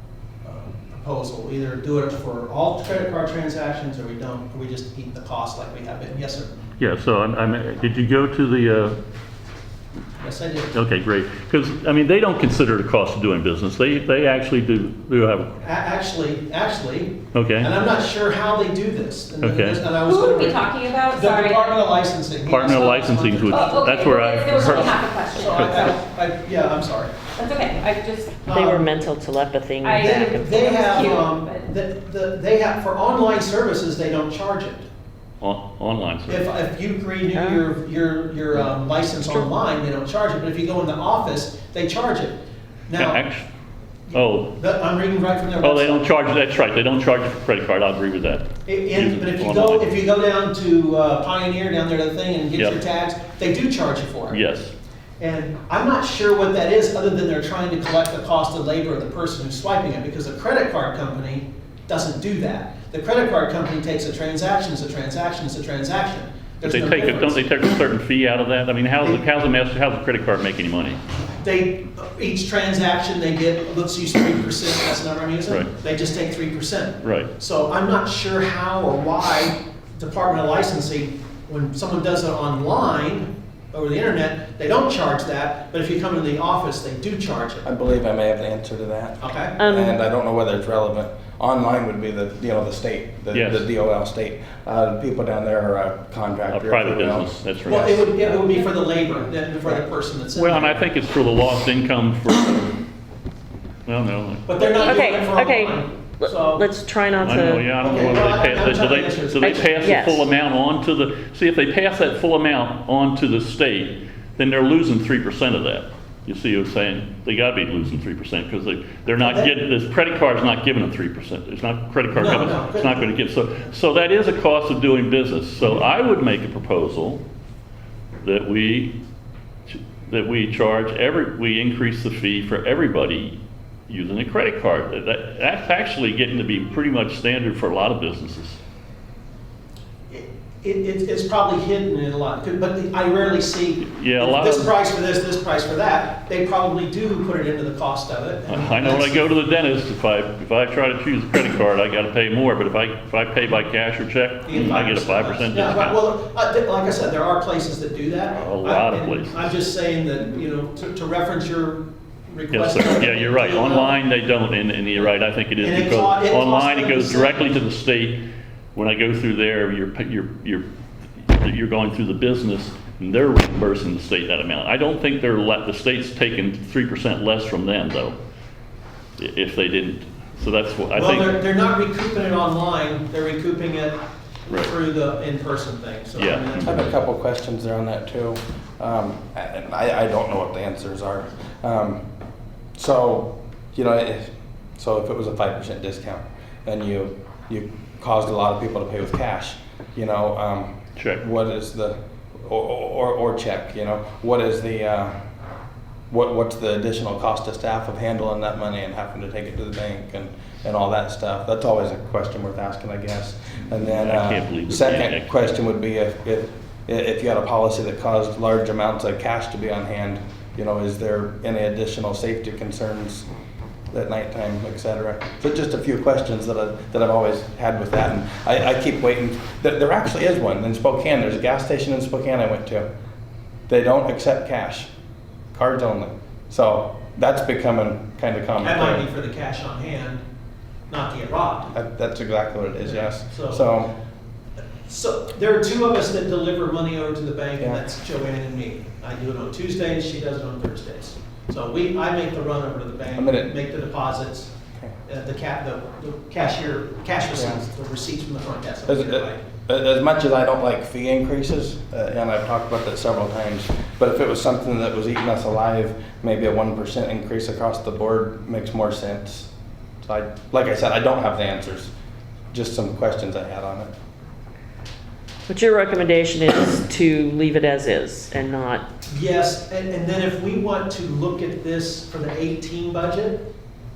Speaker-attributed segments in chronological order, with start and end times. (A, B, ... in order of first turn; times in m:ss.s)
0:00.4-0:06.6 A
0:06.8-0:09.0 B
0:10.2-0:10.7 A
0:10.7-0:15.6 B
0:15.6-0:27.2 A
0:17.3-0:17.7 B
0:19.4-0:19.9 B
0:20.0-0:21.9 C
0:22.4-0:25.8 B
0:23.5-0:26.0 C
0:27.4-0:28.4 C
0:28.4-0:29.0 A
0:28.5-0:30.9 D
0:29.8-0:31.6 C
0:30.0-0:34.9 A
0:35.4-0:36.5 B
0:36.3-0:43.2 A
0:37.3-0:37.6 D
0:42.9-0:43.5 B
0:44.1-0:46.1 A
0:44.1-0:44.6 B
0:45.6-0:49.9 B
0:48.6-0:54.4 A
0:54.3-0:54.7 B
0:55.2-1:07.5 A
1:06.6-1:11.0 B
1:11.4-1:27.6 A
1:17.0-1:17.3 B
1:27.6-1:37.3 E
1:29.2-1:29.6 A
1:29.6-1:29.9 D
1:33.3-1:33.7 B
1:36.5-1:38.1 B
1:37.6-1:40.9 A
1:40.3-1:42.8 B
1:43.9-1:44.4 B
1:44.4-1:46.7 A
1:44.6-1:48.0 D
1:47.2-2:07.2 B
1:47.2-1:50.1 A
1:49.4-1:50.2 D
1:59.2-1:59.5 A
2:02.1-2:03.6 A
2:08.2-2:09.0 B
2:09.7-2:13.4 B
2:13.9-2:18.6 B
2:20.1-2:29.3 A
2:23.8-2:24.7 B
2:28.5-2:36.0 B
2:34.4-2:43.9 A
2:38.4-2:39.5 B
2:42.5-2:48.2 B
2:45.0-2:47.5 A
2:48.7-2:50.6 B
2:51.2-2:58.2 B
2:59.2-3:01.4 B
3:00.9-3:04.0 A
3:04.5-3:06.9 A
3:06.2-3:06.8 B
3:06.6-3:12.0 E
3:12.8-3:25.1 E
3:21.0-3:21.2 B
3:26.1-3:43.3 E
3:33.7-3:35.3 B
3:43.9-3:52.9 E
3:53.7-3:54.9 E
3:55.5-3:59.0 E
3:58.6-4:00.2 A
4:00.9-4:01.7 A
4:01.7-4:03.9 E
4:02.8-4:03.6 A
4:04.8-4:14.5 A
4:13.2-4:13.5 E
4:15.0-4:19.4 A
4:18.9-4:29.5 E
4:30.0-4:31.9 E
4:32.5-4:33.9 E
4:35.5-4:38.8 D
4:39.1-4:43.4 A